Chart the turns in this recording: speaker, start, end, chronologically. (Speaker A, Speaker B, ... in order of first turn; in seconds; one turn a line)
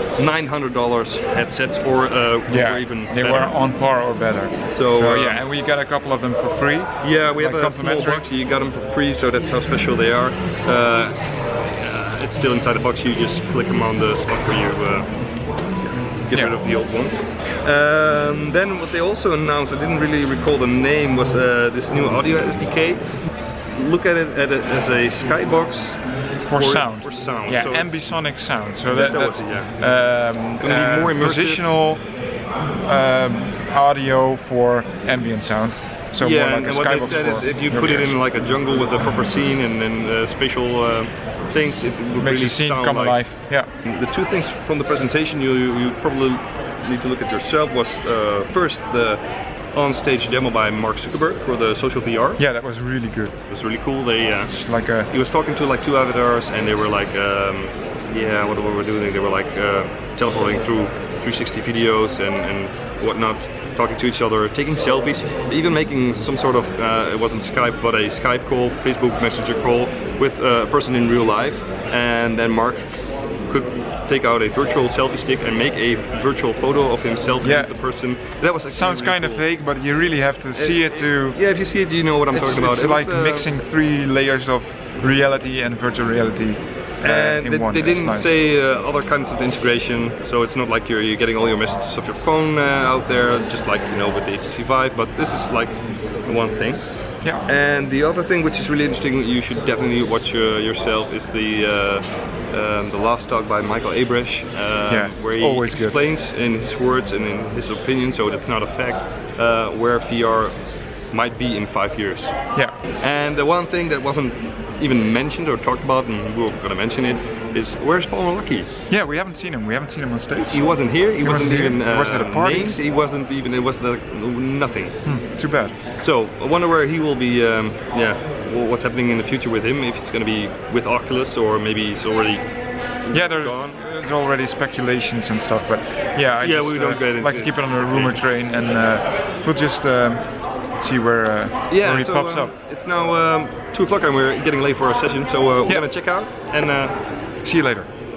Speaker A: 0.1-3.5
Speaker B: 2.5-8.2
Speaker A: 4.7-5.4
Speaker A: 7.0-11.2
Speaker A: 11.8-15.2
Speaker A: 15.8-23.0
Speaker B: 16.3-16.6
Speaker A: 23.7-27.9
Speaker B: 26.4-32.1
Speaker A: 28.9-29.7
Speaker A: 30.5-31.6
Speaker B: 32.8-38.1
Speaker A: 36.2-43.2
Speaker B: 42.2-43.7
Speaker A: 43.8-52.4
Speaker B: 52.4-53.4
Speaker A: 53.5-79.4
Speaker B: 54.4-55.1
Speaker B: 77.4-77.7
Speaker B: 78.7-81.4
Speaker A: 80.5-83.5
Speaker B: 82.3-88.4
Speaker A: 87.0-110.5
Speaker B: 104.9-106.0
Speaker A: 111.1-112.3
Speaker A: 113.0-118.7
Speaker B: 118.9-122.8
Speaker A: 120.5-125.0
Speaker B: 125.0-125.7
Speaker A: 126.0-132.4
Speaker A: 133.0-133.8
Speaker B: 133.1-142.5
Speaker A: 136.4-138.2
Speaker A: 141.7-146.9
Speaker B: 147.4-147.9